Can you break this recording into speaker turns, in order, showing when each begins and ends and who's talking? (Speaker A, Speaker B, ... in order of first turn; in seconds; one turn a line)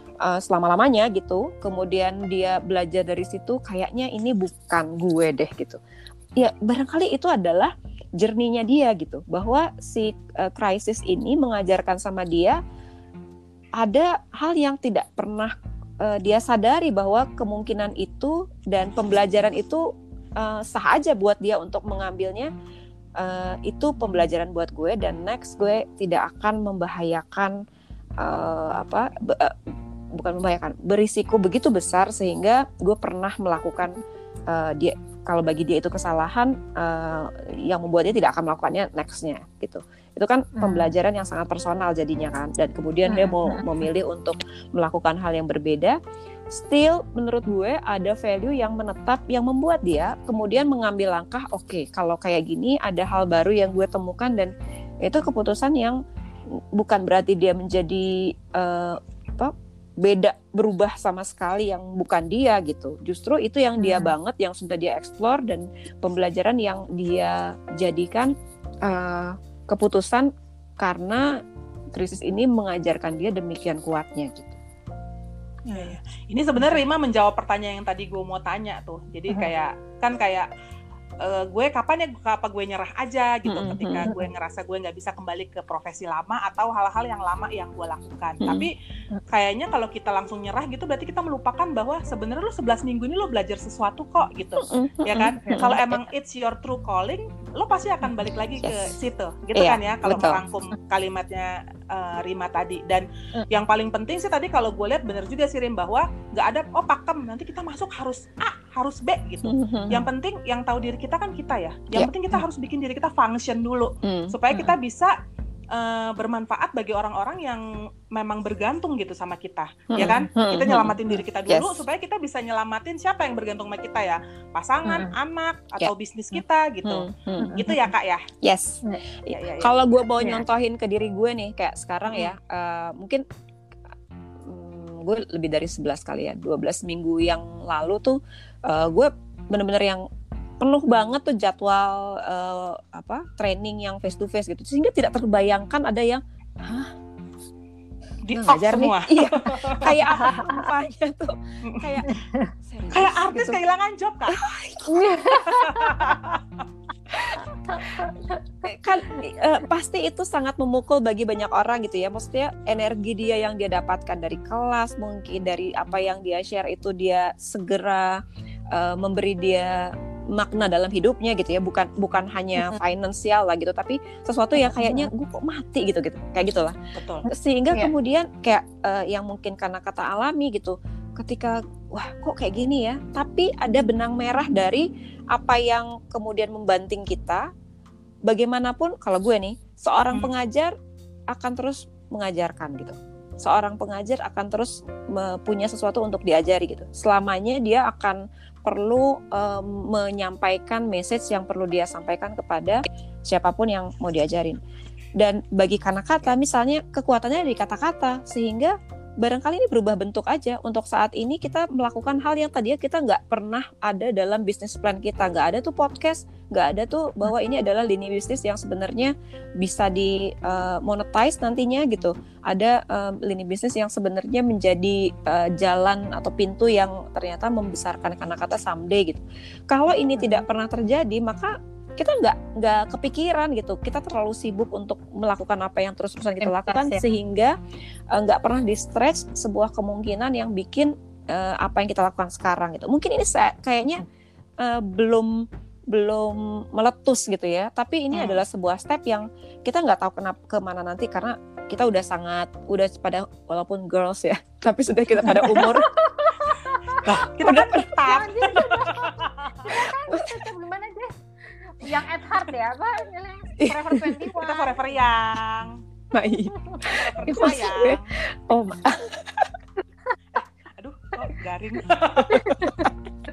Speaker A: 0.2-5.8
Speaker A: 6.4-12.6
Speaker A: 13.8-19.8
Speaker A: 20.4-22.5
Speaker A: 23.2-27.6
Speaker A: 28.2-29.6
Speaker A: 30.1-34.0
Speaker A: 34.5-46.0
Speaker B: 40.5-40.9
Speaker B: 43.1-43.6
Speaker A: 46.5-54.5
Speaker A: 55.0-56.0
Speaker A: 56.7-68.3
Speaker B: 63.8-64.1
Speaker A: 68.8-71.3
Speaker A: 71.9-74.6
Speaker C: 75.7-80.5
Speaker C: 81.2-88.7
Speaker A: 83.5-84.1
Speaker A: 88.4-88.7
Speaker C: 89.3-115.2
Speaker A: 94.6-96.0
Speaker B: 95.5-95.8
Speaker A: 98.6-99.0
Speaker A: 99.6-100.4
Speaker A: 109.4-110.1
Speaker A: 114.0-114.7
Speaker C: 115.7-128.2
Speaker A: 119.9-121.0
Speaker A: 121.5-121.8
Speaker B: 124.9-125.1
Speaker A: 126.8-127.9
Speaker B: 127.4-127.7
Speaker A: 128.4-133.2
Speaker C: 129.3-129.8
Speaker B: 130.2-130.4
Speaker A: 134.4-140.1
Speaker A: 140.6-146.9
Speaker C: 148.3-150.0
Speaker A: 148.3-152.1
Speaker B: 150.1-150.6
Speaker C: 151.7-152.0
Speaker B: 152.1-152.5
Speaker A: 152.6-153.6
Speaker C: 152.9-154.4
Speaker A: 154.3-155.6
Speaker B: 154.9-156.1
Speaker C: 155.3-156.4
Speaker A: 157.1-157.9
Speaker B: 157.4-158.5
Speaker A: 158.6-168.2
Speaker A: 168.7-176.8
Speaker B: 174.7-175.1
Speaker C: 177.0-177.3
Speaker A: 177.3-187.5
Speaker A: 188.3-190.7
Speaker A: 191.3-204.6
Speaker A: 205.2-237.6
Speaker B: 230.2-230.4
Speaker B: 236.4-237.0
Speaker A: 238.1-244.1
Speaker A: 244.6-255.9
Speaker C: 248.1-248.4
Speaker C: 255.3-255.7
Speaker B: 255.4-264.9
Speaker C: 257.0-259.7
Speaker A: 257.4-257.9
Speaker A: 260.1-260.5
Speaker A: 263.6-264.2
Speaker C: 264.4-265.8
Speaker A: 266.1-269.5
Speaker B: 266.5-267.6
Speaker C: 266.8-268.1
Speaker C: 270.4-272.8
Speaker A: 272.3-272.9
Speaker B: 272.3-272.9